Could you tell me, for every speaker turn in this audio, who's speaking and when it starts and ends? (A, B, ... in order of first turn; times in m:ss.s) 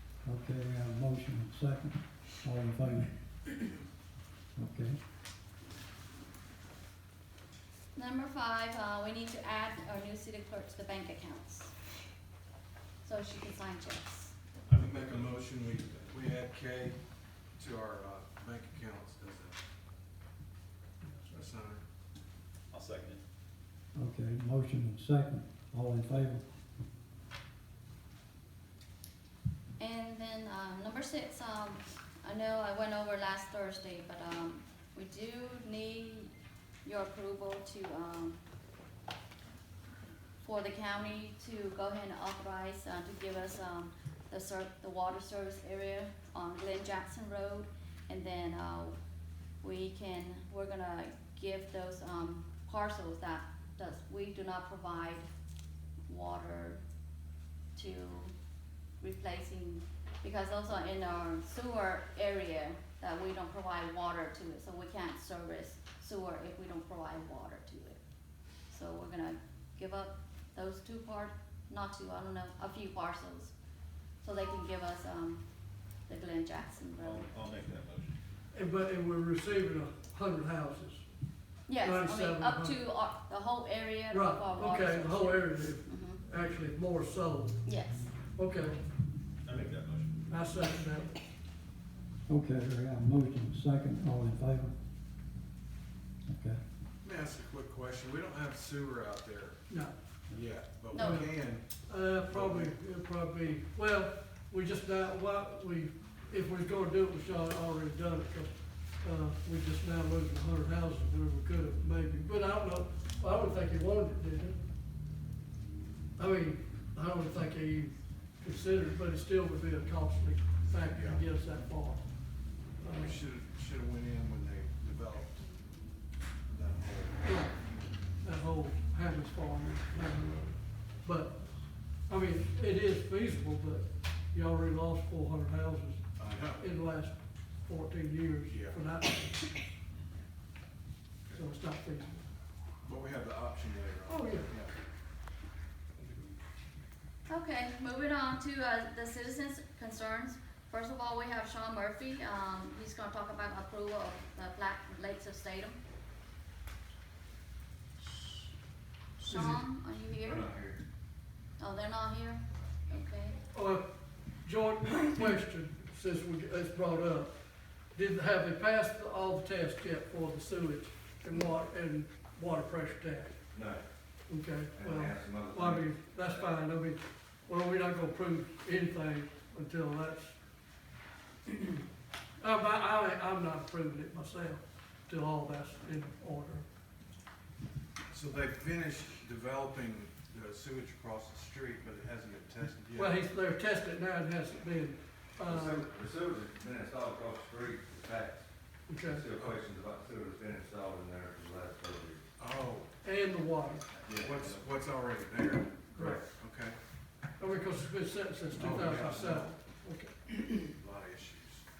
0:00.2-0:03.1 A
0:04.6-0:05.0 A
0:07.9-0:11.7 B
0:13.0-0:14.3 B
0:14.7-0:17.0 C
0:14.7-0:15.3 D
0:17.6-0:19.6 C
0:21.0-0:21.4 E
0:21.3-0:21.8 C
0:22.7-0:23.2 D
0:24.0-0:26.4 A
0:29.8-0:36.3 B
0:36.8-0:38.4 B
0:40.4-0:49.0 B
0:49.6-0:55.3 B
0:56.1-0:56.8 B
0:57.7-0:58.3 B
0:59.0-1:08.0 B
1:08.7-1:13.5 B
1:14.2-1:15.4 B
1:16.1-1:17.3 B
1:17.0-1:18.2 D
1:18.5-1:21.0 E
1:21.7-1:26.2 B
1:21.8-1:22.8 E
1:24.1-1:27.6 E
1:27.6-1:28.0 B
1:28.3-1:28.8 E
1:29.4-1:30.3 D
1:30.3-1:31.1 E
1:32.3-1:34.7 A
1:36.3-1:36.6 A
1:37.0-1:39.6 C
1:39.7-1:39.9 E
1:40.3-1:42.8 C
1:40.9-1:41.3 B
1:41.0-1:41.3 E
1:41.9-1:54.6 E
1:56.2-2:02.1 E
2:00.8-2:01.3 C
2:02.8-2:03.2 E
2:02.9-2:05.5 C
2:06.5-2:08.1 C
2:07.2-2:07.5 E
2:08.1-2:11.5 E
2:12.1-2:16.0 E
2:16.2-2:16.7 C
2:16.6-2:19.6 E
2:18.5-2:18.8 C
2:21.3-2:22.2 E
2:22.8-2:24.8 C
2:24.1-2:24.5 E
2:27.3-2:35.8 B
2:39.2-2:39.6 E
2:39.2-2:40.4 B
2:40.2-2:40.8 F
2:41.6-2:43.4 B
2:43.5-2:43.8 E
2:44.4-2:47.3 E
2:47.9-2:53.3 E
2:53.5-2:53.8 F
2:54.3-3:00.4 E
2:54.8-2:56.5 F
3:01.5-3:01.8 E
3:02.4-3:06.7 E
3:08.1-3:13.2 C
3:13.0-3:15.8 E
3:15.4-3:18.5 F
3:18.9-3:19.3 E
3:19.0-3:22.2 F
3:22.4-3:22.9 C
3:23.0-3:23.9 E
3:24.0-3:24.7 F
3:24.1-3:26.8 C
3:25.9-3:26.2 E
3:26.0-3:26.2 F
3:27.4-3:30.4 E
3:28.6-3:29.5 C
3:30.8-3:31.6 C